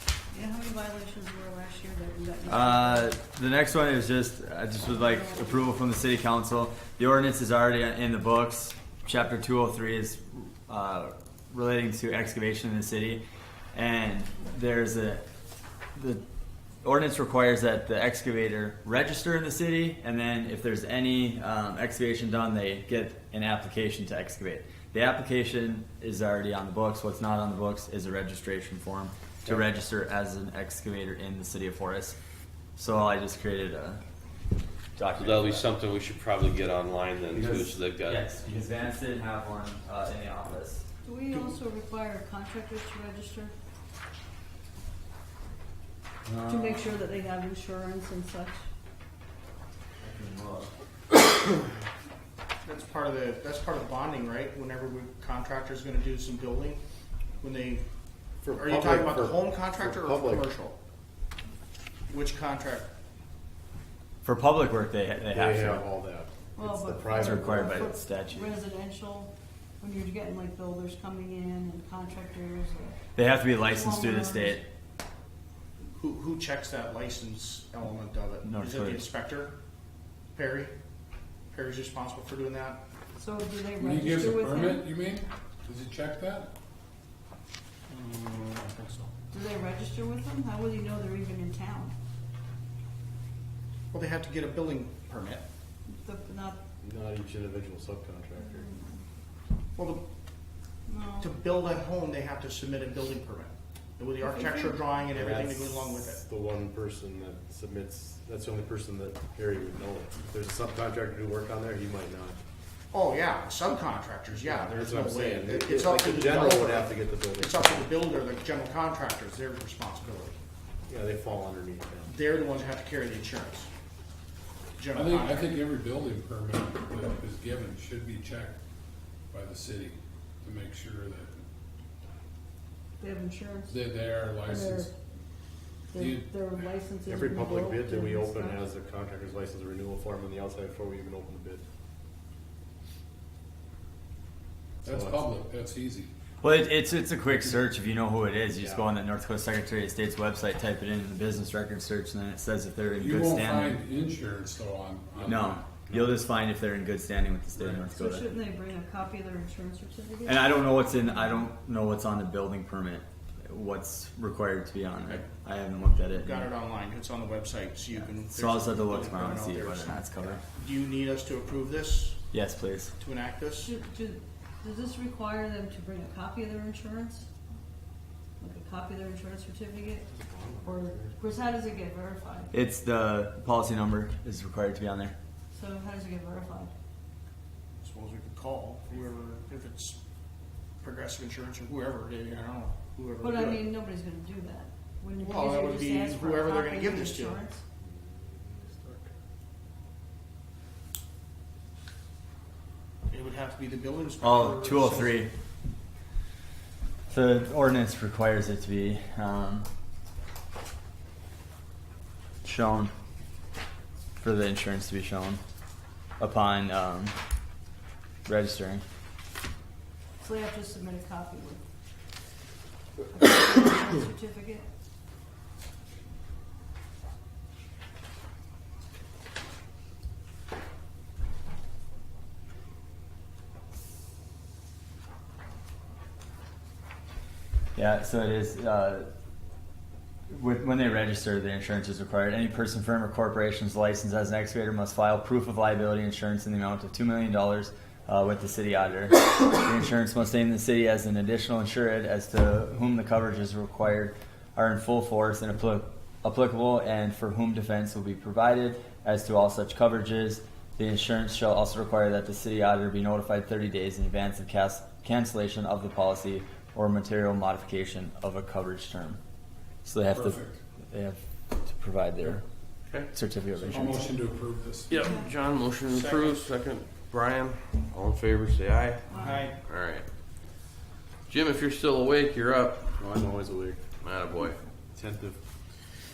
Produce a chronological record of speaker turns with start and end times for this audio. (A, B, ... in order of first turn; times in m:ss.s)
0:00.3-0:03.1 A
0:02.5-0:13.2 B
0:04.9-0:05.8 A
0:13.7-0:15.2 B
0:15.9-0:16.2 B
0:16.8-0:32.2 B
0:32.8-0:34.0 B
0:35.0-0:35.6 B
0:35.2-0:38.2 C
0:37.3-0:40.8 B
0:41.0-0:43.5 A
0:46.2-0:46.9 B
0:46.5-0:48.6 A
0:50.0-0:50.7 B
0:52.6-0:56.8 D
0:57.4-0:57.8 D
0:58.4-1:00.5 E
0:58.5-1:00.8 D
1:02.1-1:02.9 D
1:04.2-1:05.8 B
1:05.3-1:07.9 E
1:06.6-1:13.0 A
1:07.1-1:08.5 B
1:13.1-1:14.6 B
1:13.6-1:14.6 A
1:16.0-1:19.5 D
1:18.4-1:19.0 B
1:20.3-1:20.7 D
1:21.5-1:22.8 D
1:23.2-1:24.9 A
1:23.8-1:26.5 F
1:27.9-1:29.1 D
1:29.3-1:31.9 A
1:33.9-1:35.4 D
1:35.9-1:36.6 A
1:36.8-1:38.7 E
1:38.4-1:39.0 A
1:39.8-1:40.0 D
1:40.9-1:41.3 A
1:41.2-1:46.2 D
1:44.2-1:44.8 A
1:45.0-1:52.4 E
1:52.9-2:00.4 D
1:54.3-1:57.9 E
2:00.9-2:02.1 E
2:02.1-2:03.7 D
2:04.8-2:05.5 D
2:04.9-2:08.6 F
2:09.3-2:11.4 F
2:13.0-2:13.8 A
2:13.7-2:14.9 F
2:14.4-2:14.9 A
2:15.9-2:18.6 A
2:15.9-2:16.7 F
2:17.1-2:21.6 E
2:24.8-2:26.1 F
2:24.8-2:25.2 E
2:26.4-2:33.8 B
2:28.6-2:28.9 E
2:33.0-2:35.8 F
2:35.2-2:38.3 B
2:35.9-2:36.2 E
2:37.9-2:41.5 A
2:40.2-2:46.5 B
2:46.1-2:52.2 D
2:47.9-2:50.4 B
2:52.3-2:52.9 B
2:53.0-2:53.7 D
2:53.6-2:57.3 A
2:58.4-3:00.1 A
3:00.1-3:01.2 E
3:00.6-3:02.5 A
3:02.5-3:05.2 B
3:05.5-3:06.7 A
3:07.8-3:10.0 D
3:10.8-3:13.7 D
3:13.2-3:17.6 A
3:15.2-3:17.4 D
3:17.8-3:19.1 E
3:23.1-3:25.2 D
3:24.2-3:25.3 B
3:27.1-3:29.6 B
3:32.4-3:32.9 B
3:34.2-3:35.4 B
3:36.2-3:37.1 B
3:38.2-3:38.8 B
3:40.2-3:41.6 A
3:43.1-3:44.7 A
3:57.7-3:59.0 B
4:00.3-4:29.2 B
4:29.8-4:30.4 B
4:30.1-4:30.6 F
4:30.9-4:32.4 B
4:33.1-4:34.1 B
4:33.6-4:35.2 F
4:34.9-4:39.1 C
4:35.0-4:35.3 A
4:35.9-4:36.5 D
4:39.0-4:39.5 A
4:39.2-4:39.6 D
4:39.7-4:40.0 C
4:41.3-4:42.9 C
4:43.0-4:43.8 E
4:44.0-4:44.6 C
4:44.9-4:45.4 E